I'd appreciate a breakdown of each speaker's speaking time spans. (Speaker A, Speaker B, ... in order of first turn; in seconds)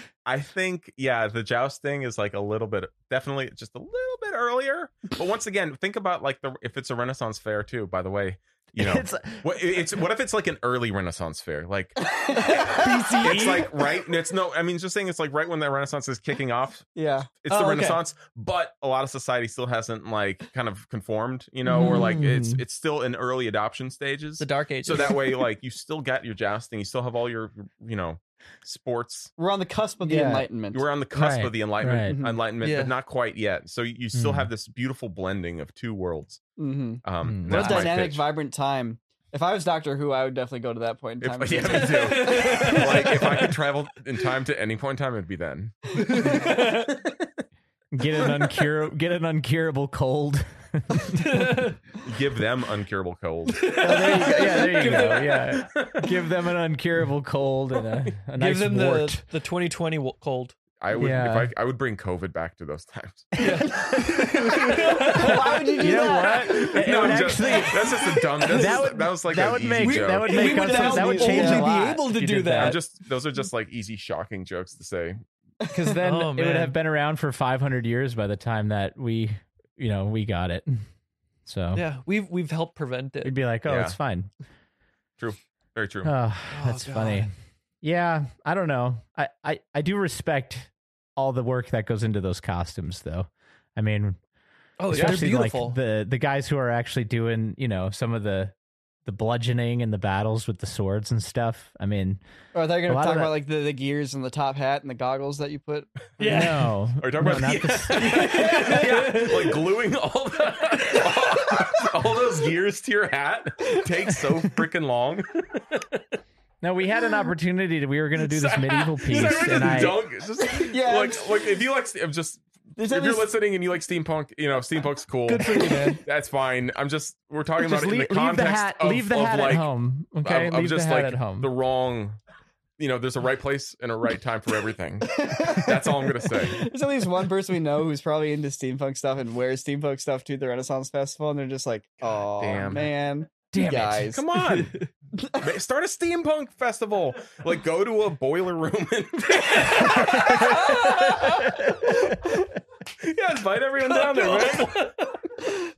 Speaker A: 0.2-12.2, 13.2-29.3, 30.7-36.4, 37.0-38.2, 41.2-45.9, 52.0-53.7, 55.6-56.1, 60.8-63.8, 66.8-70.4, 72.6-75.2, 83.7-84.0, 85.2-86.1, 107.0-116.0, 118.2-129.7, 130.2-132.2, 132.8-136.7, 142.4-142.9, 143.7-152.3, 153.0-155.2
Speaker B: 8.7-9.8, 21.7-22.6, 30.1-30.5, 31.1-32.2, 34.1-34.5, 37.2-37.7, 47.9-51.3, 53.8-59.2, 61.0-61.5, 65.8-67.9, 68.5-72.8, 75.7-80.9, 81.5-81.8, 83.2-84.3, 86.0-87.3, 87.8-94.2, 94.9-98.5, 99.0-102.2, 102.9-103.3, 106.2-108.3, 116.6-120.0, 127.6-131.5, 143.5-144.2, 150.1-151.7
Speaker C: 12.0-13.6, 16.9-17.3, 29.4-30.9, 32.1-32.4, 36.6-43.5, 46.0-46.6, 63.6-67.1, 70.4-71.7, 75.6-75.9, 102.5-105.9, 108.2-109.2, 120.5-121.6, 122.8-123.3, 135.1-144.2
Speaker D: 12.7-13.9, 17.5-18.0, 24.4-25.2, 32.6-33.0, 37.5-37.9, 41.7-43.5, 45.9-47.1, 51.1-51.8, 53.5-55.6, 58.4-60.5, 63.4-66.6, 67.4-68.9, 69.8-72.8, 76.0-76.8, 81.7-83.4, 86.5-87.3, 94.8-95.8, 106.2-106.7, 108.0-109.6, 125.3-126.0, 144.4-144.9, 149.4-151.2, 153.8-155.2